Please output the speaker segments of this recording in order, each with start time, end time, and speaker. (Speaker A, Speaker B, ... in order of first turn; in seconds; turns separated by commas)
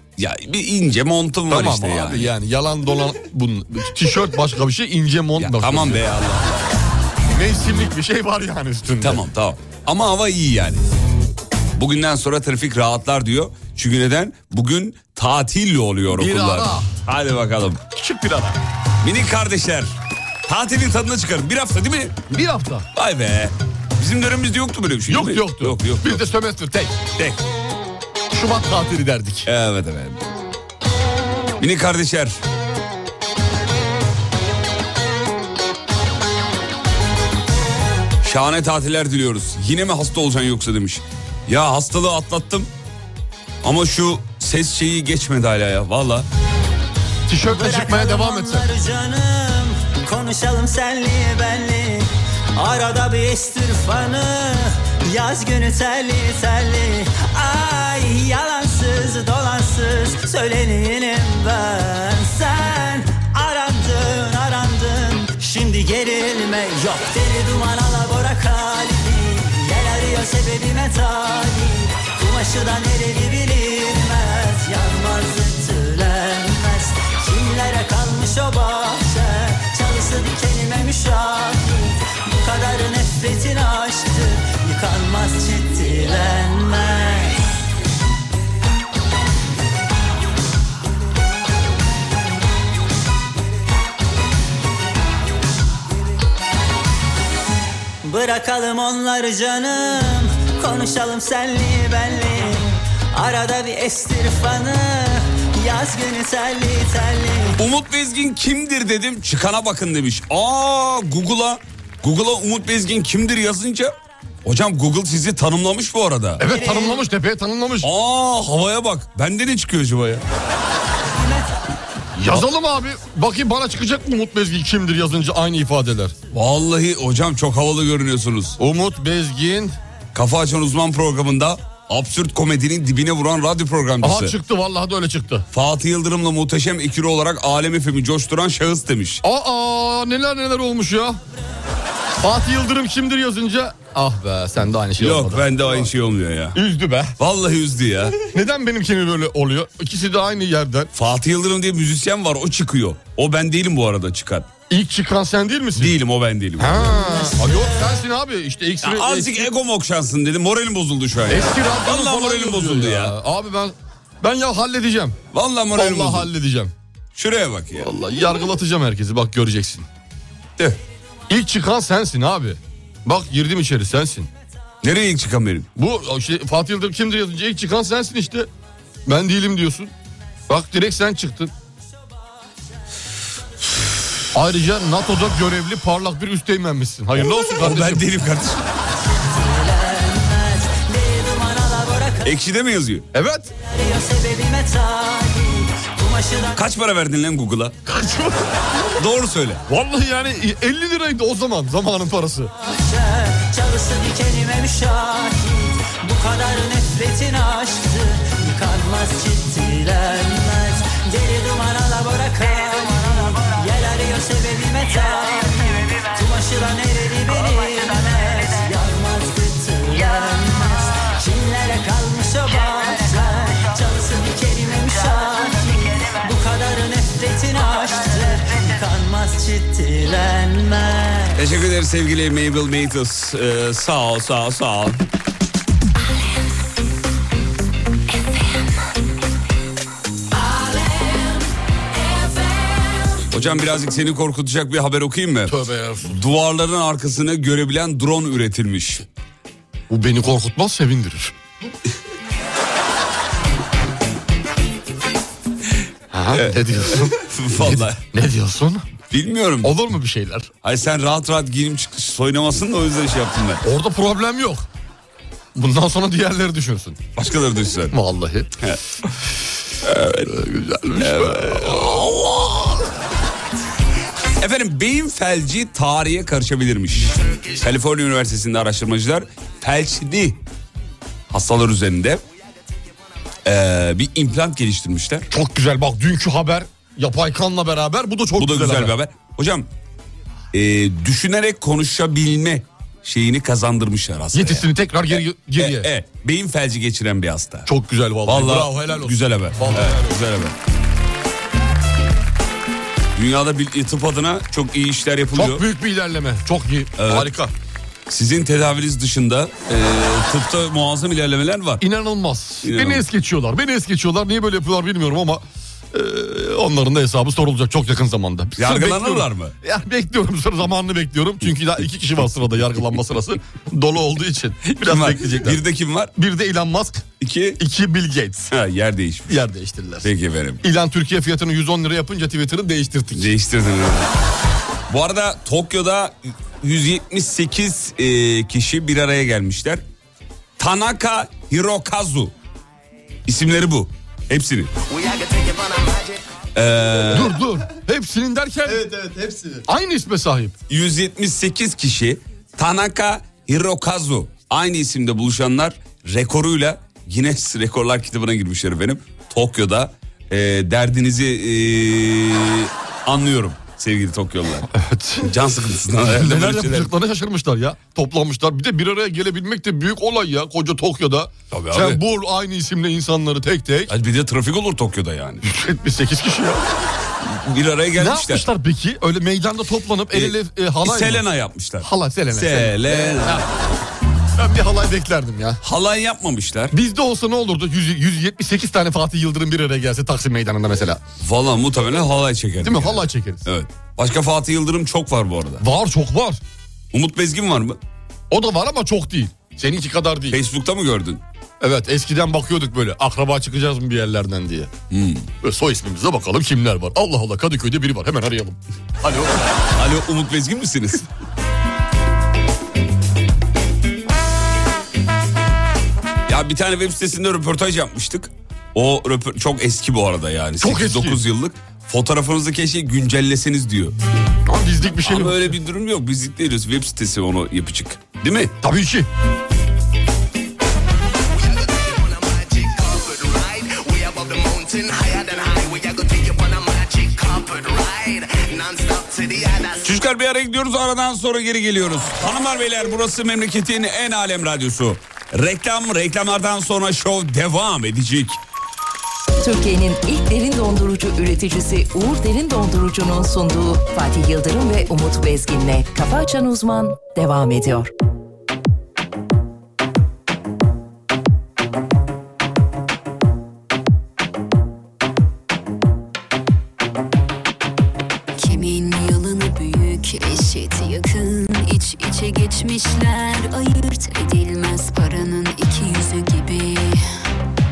Speaker A: 0.2-2.3, Speaker B: 1.5-6.1, Speaker A: 5.4-6.8, Speaker B: 7.3-9.2, Speaker A: 9.0-10.8, Speaker A: 11.8-17.8, Speaker B: 16.2-16.9, Speaker B: 17.9-18.6, Speaker A: 19.0-20.0, Speaker A: 20.5-22.3, Speaker B: 22.3-22.9, Speaker A: 22.9-26.2, Speaker B: 25.1-27.0, Speaker A: 27.1-27.4, Speaker B: 28.3-29.5, Speaker A: 29.5-30.2, Speaker A: 31.6-32.4, Speaker A: 38.2-42.7, Speaker A: 43.6-46.3, Speaker B: 47.3-48.7, Speaker C: 47.7-52.0, Speaker C: 52.6-87.3, Speaker C: 98.0-102.6, Speaker C: 103.2-107.5, Speaker A: 107.6-113.9, Speaker A: 114.5-116.5, Speaker B: 116.4-117.9, Speaker A: 117.8-120.2, Speaker B: 122.2-126.2, Speaker A: 126.3-128.6, Speaker B: 128.6-129.8, Speaker A: 130.1-134.3, Speaker B: 134.0-135.4, Speaker A: 135.5-139.2, Speaker B: 139.2-141.2, Speaker B: 142.2-145.9, Speaker A: 145.0-146.6, Speaker B: 146.5-147.2, Speaker A: 147.2-148.3, Speaker B: 148.3-150.9, Speaker A: 150.9-154.5, Speaker B: 154.7-156.0, Speaker A: 155.8-157.1, Speaker B: 156.6-159.5, Speaker A: 158.8-163.2, Speaker B: 161.3-165.2, Speaker A: 165.3-166.3, Speaker B: 165.7-166.7, Speaker A: 167.2-167.9, Speaker B: 167.8-169.9, Speaker B: 171.3-174.3, Speaker A: 174.8-175.7, Speaker B: 175.8-178.5, Speaker B: 179.1-179.9, Speaker B: 180.5-181.5, Speaker B: 184.3-188.1, Speaker A: 187.6-188.7, Speaker C: 189.3-192.2, Speaker A: 192.2-193.1, Speaker B: 193.1-193.5, Speaker C: 193.8-196.5, Speaker A: 196.5-197.8, Speaker B: 197.9-198.5, Speaker A: 199.0-199.6, Speaker B: 199.7-202.5, Speaker C: 202.9-231.3, Speaker A: 231.3-235.0, Speaker D: 240.5-241.4, Speaker D: 242.1-242.8, Speaker A: 243.3-249.0, Speaker B: 245.5-246.2, Speaker B: 249.9-251.3, Speaker B: 256.1-258.9, Speaker A: 256.4-258.0, Speaker A: 259.1-259.8, Speaker B: 259.6-260.5, Speaker A: 260.6-263.6, Speaker B: 263.6-264.7, Speaker B: 265.6-267.1, Speaker A: 267.2-268.0, Speaker B: 267.9-268.5, Speaker A: 269.8-270.4, Speaker B: 270.2-272.7, Speaker A: 271.0-272.7, Speaker A: 274.4-280.4, Speaker A: 281.3-282.2, Speaker A: 283.4-285.3, Speaker B: 285.3-288.9, Speaker A: 288.4-289.7, Speaker A: 290.5-297.7, Speaker B: 294.3-295.9, Speaker B: 297.7-300.2, Speaker A: 298.3-300.6, Speaker A: 303.2-305.7, Speaker B: 305.3-307.5, Speaker A: 307.0-307.3, Speaker A: 308.1-311.8, Speaker B: 311.8-325.6, Speaker A: 312.6-313.0, Speaker A: 318.6-319.5, Speaker A: 324.7-326.1, Speaker B: 326.2-327.1, Speaker A: 327.2-327.6, Speaker B: 327.6-328.5, Speaker A: 328.5-329.4, Speaker B: 329.3-330.1, Speaker A: 330.0-330.6, Speaker B: 330.6-333.3, Speaker A: 333.1-334.2, Speaker A: 334.9-339.8, Speaker A: 340.6-342.3, Speaker A: 343.3-344.7, Speaker E: 344.9-346.2, Speaker A: 346.6-347.4, Speaker B: 347.1-348.9, Speaker E: 349.0-349.2, Speaker B: 349.6-350.6, Speaker A: 350.7-364.7, Speaker B: 364.7-365.3, Speaker A: 365.2-366.9, Speaker B: 366.0-373.9, Speaker A: 371.5-372.0, Speaker A: 373.9-375.4, Speaker B: 375.4-376.7, Speaker A: 377.2-378.5, Speaker B: 378.0-381.2, Speaker A: 380.1-383.4, Speaker B: 381.8-383.5, Speaker B: 384.4-385.6, Speaker A: 385.6-386.7, Speaker B: 386.7-391.0, Speaker A: 391.2-395.6, Speaker B: 392.6-393.5, Speaker B: 395.6-396.4, Speaker A: 396.9-397.8, Speaker B: 398.3-400.4, Speaker A: 400.3-401.2, Speaker B: 401.6-404.7, Speaker A: 404.9-405.3, Speaker B: 405.4-409.4, Speaker A: 409.8-411.1, Speaker A: 416.3-423.9, Speaker B: 420.6-421.2, Speaker B: 424.5-425.6, Speaker A: 425.1-428.5, Speaker B: 428.6-429.1, Speaker E: 431.3-439.9, Speaker A: 439.8-448.4, Speaker F: 449.4-457.9, Speaker D: 468.4-477.0